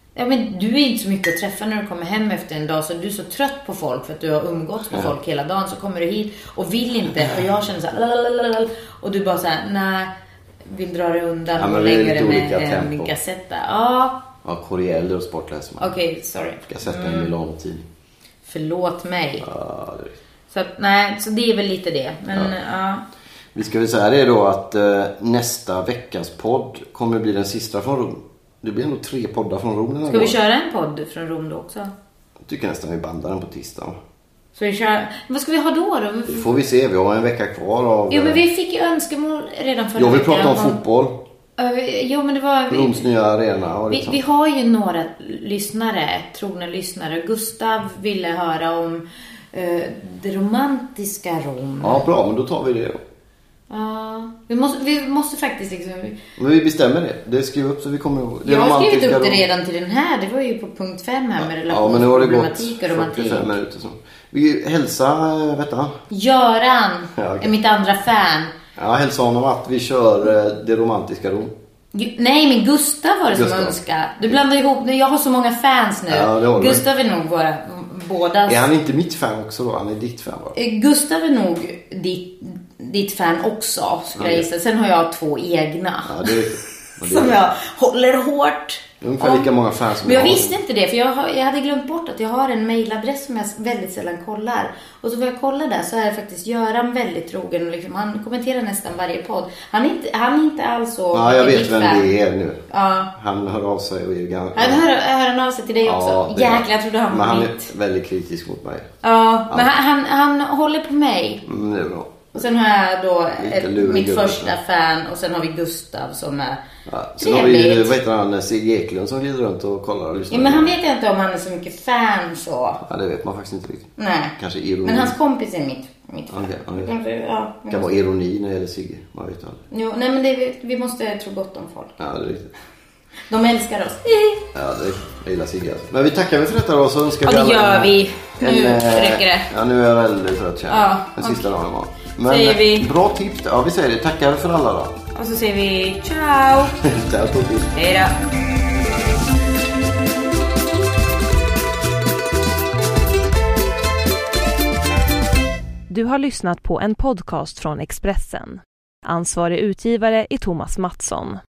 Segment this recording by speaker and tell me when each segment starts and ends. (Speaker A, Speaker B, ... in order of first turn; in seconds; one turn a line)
Speaker A: 0.1-10.1
Speaker A: 10.7-14.3
Speaker B: 11.6-13.1
Speaker B: 14.4-15.9
Speaker A: 15.8-17.3
Speaker B: 16.7-17.8
Speaker A: 18.5-19.5
Speaker B: 19.4-20.2
Speaker A: 20.5-23.0
Speaker B: 23.5-30.4
Speaker A: 30.1-31.9
Speaker B: 32.4-34.0
Speaker A: 34.5-36.6
Speaker B: 36.3-38.4
Speaker A: 38.1-40.8
Speaker B: 40.0-41.2
Speaker A: 41.6-43.0
Speaker B: 42.7-44.2
Speaker A: 43.9-52.0
Speaker B: 51.8-53.0
Speaker A: 53.7-56.2
Speaker B: 56.4-59.4
Speaker A: 58.4-63.5
Speaker B: 61.4-66.0
Speaker A: 66.1-68.5
Speaker B: 67.2-67.5
Speaker B: 68.8-71.5
Speaker A: 71.9-78.7
Speaker B: 73.3-74.4
Speaker B: 76.1-76.8
Speaker B: 78.5-80.5
Speaker A: 80.5-86.5
Speaker B: 84.2-84.5
Speaker B: 86.0-87.4
Speaker A: 87.0-89.5
Speaker B: 89.0-90.6
Speaker A: 90.0-102.1
Speaker B: 101.1-102.7
Speaker A: 102.7-103.1
Speaker B: 103.2-104.8
Speaker A: 104.5-107.7
Speaker B: 105.8-108.9
Speaker A: 109.0-111.4
Speaker B: 111.4-112.4
Speaker A: 112.3-116.6
Speaker B: 113.4-114.5
Speaker B: 116.9-120.8
Speaker A: 117.2-117.9
Speaker A: 120.3-122.8
Speaker B: 122.8-125.2
Speaker A: 124.0-127.9
Speaker B: 126.3-127.0
Speaker B: 127.7-129.6
Speaker A: 129.7-132.0
Speaker B: 132.0-132.5
Speaker A: 133.3-134.4
Speaker B: 134.5-145.0
Speaker A: 137.2-139.5
Speaker A: 140.7-141.4
Speaker A: 142.2-142.9
Speaker A: 145.2-146.8
Speaker B: 146.8-147.7
Speaker A: 147.8-148.2
Speaker C: 155.9-161.4